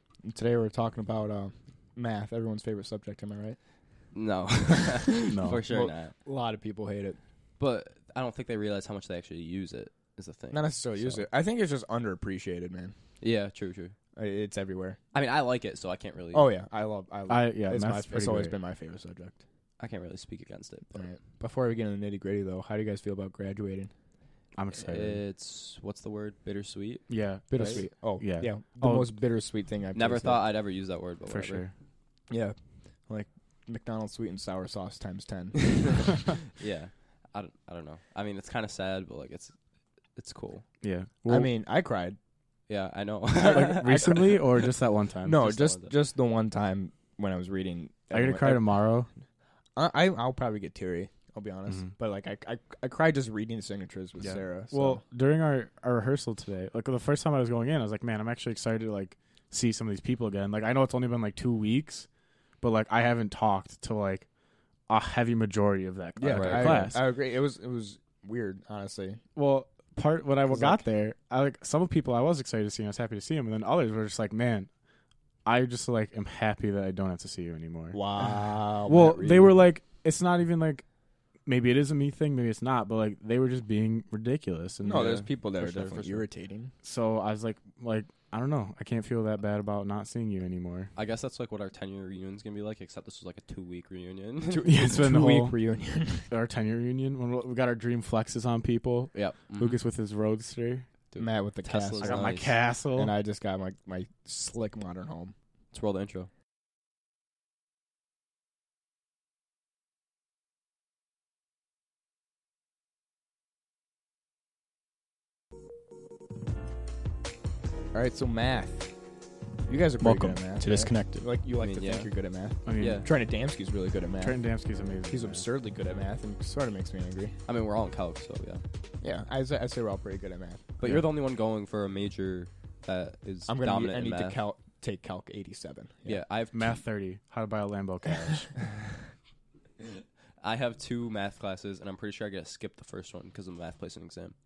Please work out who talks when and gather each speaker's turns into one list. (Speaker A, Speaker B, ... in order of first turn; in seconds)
Speaker A: 0.2-3.6, 5.7-7.2, 10.5-12.9, 14.2-15.0, 16.3-19.4, 20.9-23.9, 27.5-30.4, 32.3-36.1, 41.3-42.2, 43.4-44.0, 45.2-48.8, 49.8-55.0, 66.2-69.2, 70.5-70.8, 77.9-79.5, 84.8-86.7, 94.5-96.3, 101.2-105.3, 117.9-118.9, 119.7-124.4, 125.1-127.3, 129.0-130.6, 133.5-136.2
Speaker B: 4.1-6.1, 7.6-11.2, 13.2-13.9, 15.1-16.4, 19.8-21.1, 24.7-27.8, 29.9-31.7, 35.9-39.5, 40.1-40.6, 42.7-44.4, 45.4-45.9, 66.3-66.9, 85.5-86.2, 91.0-94.7, 99.1-99.8, 101.1-102.5, 105.7-106.3, 121.6-122.1, 122.8-123.1, 127.5-128.6, 130.8-134.4, 136.1-136.8, 140.4-144.3
Speaker C: 5.3-5.6, 17.3-18.6, 24.6-25.2, 27.1-29.1, 31.3-31.7, 40.8-41.5, 43.4-45.5, 48.1-49.1, 54.2-62.1, 62.6-64.3, 64.9-67.0, 69.3-74.7, 75.4-80.8, 81.5-85.3, 86.8-90.9, 94.6-95.6, 96.3-100.9, 102.0-103.1, 120.0-121.2, 122.7-123.1, 124.2-125.4, 136.5-138.6